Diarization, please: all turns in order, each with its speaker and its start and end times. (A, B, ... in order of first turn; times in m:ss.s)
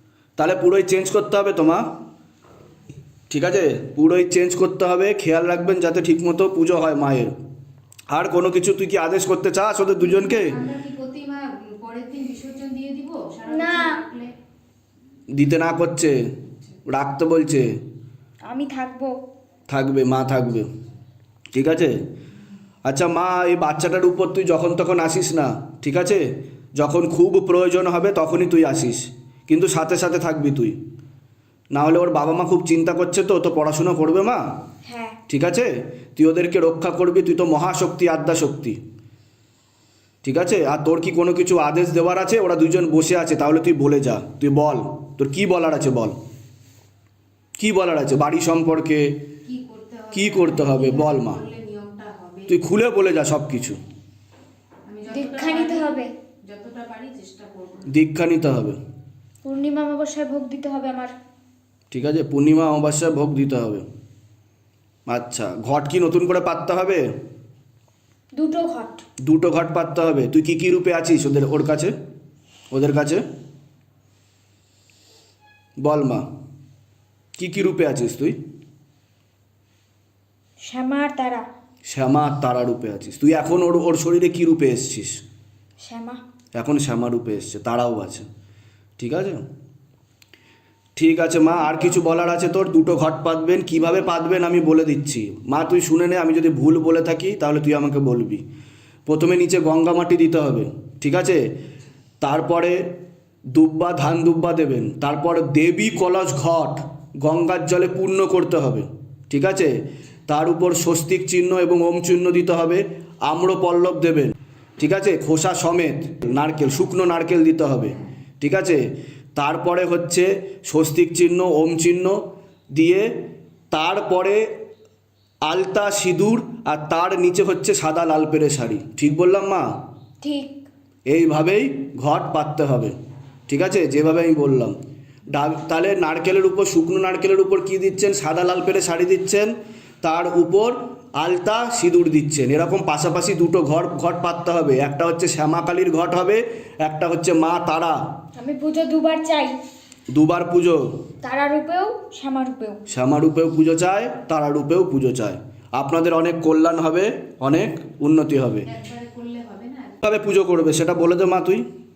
0:00.4-0:01.8 A
0:03.3-0:07.3 A
0:08.1-0:10.6 A
0:10.0-0:14.3 B
0:13.5-0:14.0 C
0:15.3-0:16.2 A
0:16.9-0:17.7 A
0:18.4-0:19.1 C
0:19.7-0:20.7 A
0:21.5-0:22.0 A
0:22.8-0:30.8 A
0:31.7-0:34.4 A
0:34.8-0:35.2 C
0:35.3-0:38.8 A
0:40.2-0:46.2 A
0:47.6-0:49.2 A
0:49.4-0:52.5 B
0:50.1-0:51.4 A
0:52.5-0:53.8 A
0:54.9-0:57.9 B
0:55.1-0:56.1 C
0:57.9-0:58.8 A
0:59.4-1:01.1 C
1:01.9-1:03.8 A
1:05.1-1:07.0 A
1:08.3-1:09.0 C
1:09.2-1:11.9 A
1:12.7-1:13.2 A
1:15.8-1:16.2 A
1:17.4-1:18.4 A
1:20.6-1:21.4 C
1:21.8-1:25.2 A
1:25.8-1:26.2 C
1:26.5-1:28.2 A
1:29.0-1:29.4 A
1:31.0-1:38.4 A
1:39.1-1:41.4 A
1:42.2-1:42.8 A
1:43.5-1:49.7 A
1:50.3-1:58.8 A
1:59.3-2:02.2 A
2:02.7-2:03.1 A
2:03.7-2:04.4 A
2:05.4-2:09.6 A
2:10.2-2:10.6 C
2:11.1-2:12.9 A
2:13.5-2:14.7 A
2:15.3-2:28.0 A
2:28.4-2:29.6 C
2:30.1-2:30.8 A
2:31.2-2:32.8 C
2:32.9-2:38.6 A
2:38.6-2:40.0 B
2:40.0-2:41.6 A